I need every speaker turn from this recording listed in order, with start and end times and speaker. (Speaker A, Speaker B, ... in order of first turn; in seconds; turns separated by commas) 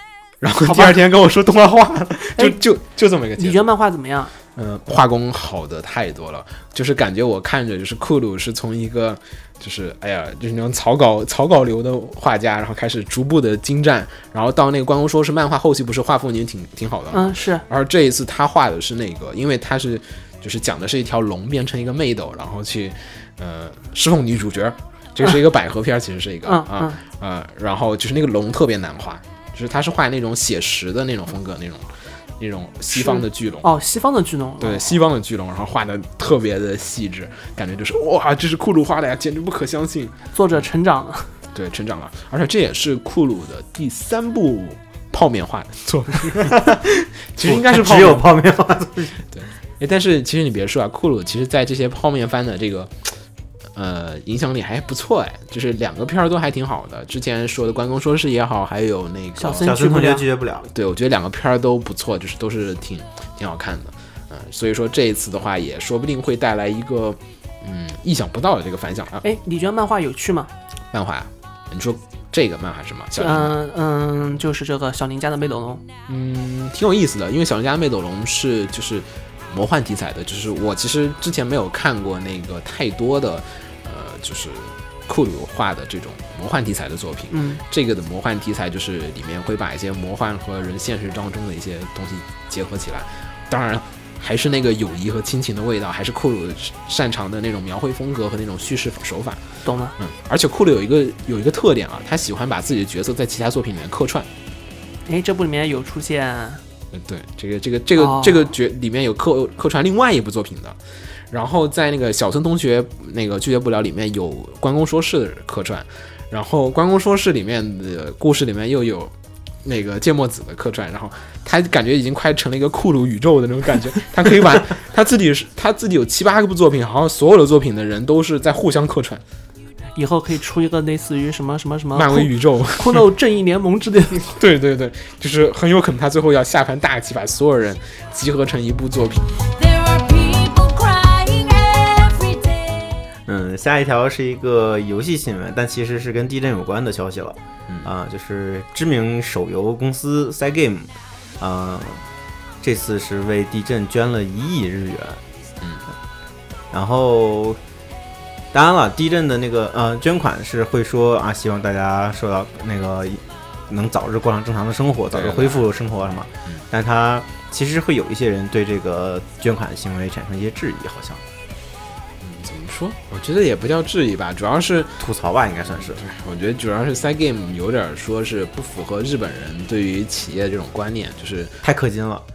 Speaker A: 0.4-3.6, Speaker B: 0.6-0.9, Speaker B: 3.4-4.3, Speaker A: 4.5-33.7, Speaker B: 17.1-17.6, Speaker B: 26.5-27.0, Speaker B: 32.9-35.0, Speaker A: 34.6-40.1, Speaker B: 40.3-41.3, Speaker A: 41.5-48.3, Speaker C: 46.5-46.8, Speaker C: 47.4-49.2, Speaker A: 49.3-53.2, Speaker A: 53.7-59.7, Speaker B: 59.4-60.2, Speaker C: 59.6-60.7, Speaker A: 60.7-69.2, Speaker B: 69.2-70.5, Speaker A: 70.9-73.5, Speaker B: 73.2-75.8, Speaker A: 76.1-99.4, Speaker B: 87.3-87.6, Speaker B: 99.6-99.9, Speaker A: 100.0-104.3, Speaker B: 105.1-106.6, Speaker A: 106.9-110.8, Speaker B: 108.0-108.5, Speaker A: 111.3-129.2, Speaker B: 129.9-134.3, Speaker A: 131.9-133.1, Speaker A: 134.2-139.4, Speaker D: 139.5-143.0, Speaker C: 143.2-152.0, Speaker C: 152.6-155.2, Speaker C: 156.7-157.6, Speaker C: 158.5-171.2, Speaker A: 165.1-165.6, Speaker A: 172.2-175.0, Speaker C: 175.0-176.0, Speaker A: 175.8-181.6, Speaker C: 181.6-182.2